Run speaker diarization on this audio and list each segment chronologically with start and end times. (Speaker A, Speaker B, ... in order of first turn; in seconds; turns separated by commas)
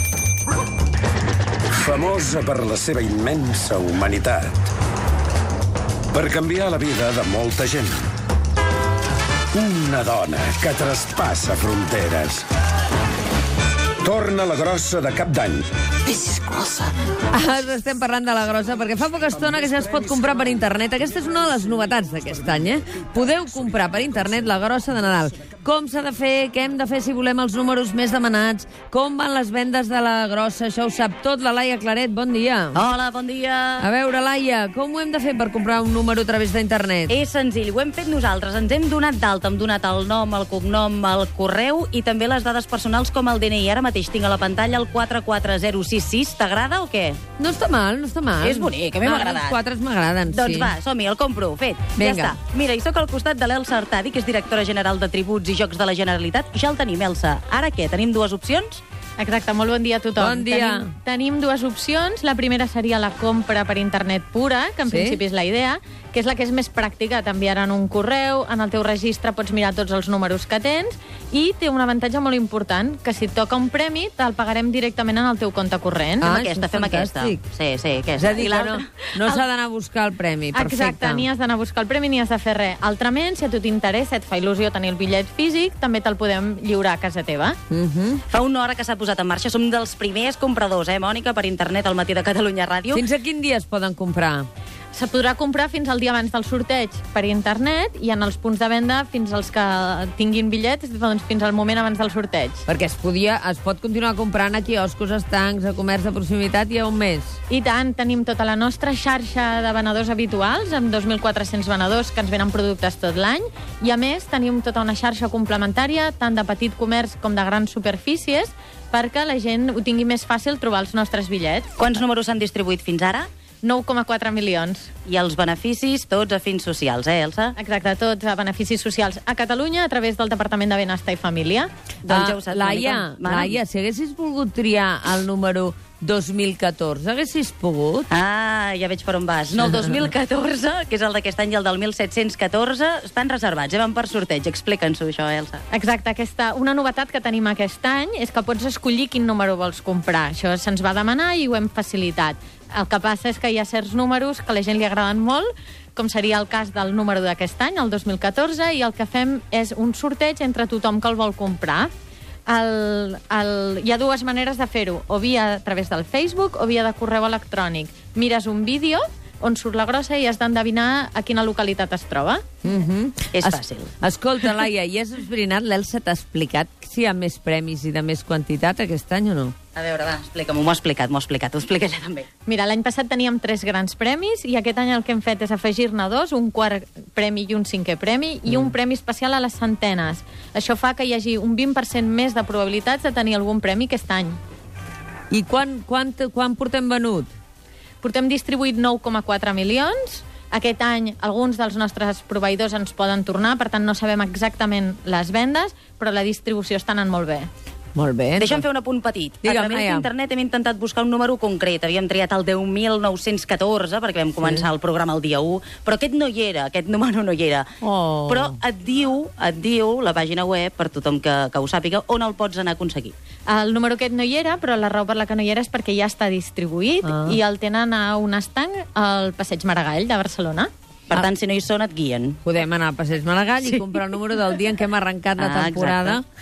Speaker A: 1.8-4.7, Speaker A: 6.1-8.0, Speaker A: 9.5-12.4, Speaker A: 14.0-15.7, Speaker B: 17.3-32.8, Speaker C: 32.8-33.9, Speaker B: 33.8-37.1, Speaker C: 37.1-47.2, Speaker B: 47.4-50.7, Speaker C: 48.4-49.6, Speaker C: 50.3-58.8, Speaker B: 52.0-52.4, Speaker D: 59.2-76.3, Speaker B: 60.2-60.9, Speaker B: 64.9-65.2, Speaker B: 76.2-77.4, Speaker C: 76.2-78.8, Speaker B: 78.2-81.2, Speaker D: 80.5-87.6, Speaker B: 87.7-88.2, Speaker C: 88.3-93.0, Speaker B: 92.9-94.5, Speaker D: 94.9-102.7, Speaker B: 102.7-107.4, Speaker D: 107.5-121.8, Speaker C: 121.8-123.3, Speaker D: 123.6-124.9, Speaker C: 125.0-127.6, Speaker D: 127.6-131.7, Speaker C: 132.1-133.6, Speaker B: 132.1-138.1, Speaker C: 138.1-145.6, Speaker D: 145.7-161.9, Speaker D: 162.5-172.4, Speaker B: 172.6-179.6, Speaker C: 173.3-173.9, Speaker C: 179.8-182.3, Speaker D: 182.5-194.4, Speaker B: 195.3-197.3, Speaker D: 198.0-207.5, Speaker B: 207.9-208.7, Speaker C: 208.4-217.7, Speaker B: 209.4-210.1, Speaker B: 217.8-218.6, Speaker C: 218.3-223.1, Speaker D: 223.5-230.7, Speaker B: 227.1-227.3, Speaker C: 231.1-232.4, Speaker B: 232.4-236.2, Speaker C: 235.4-236.2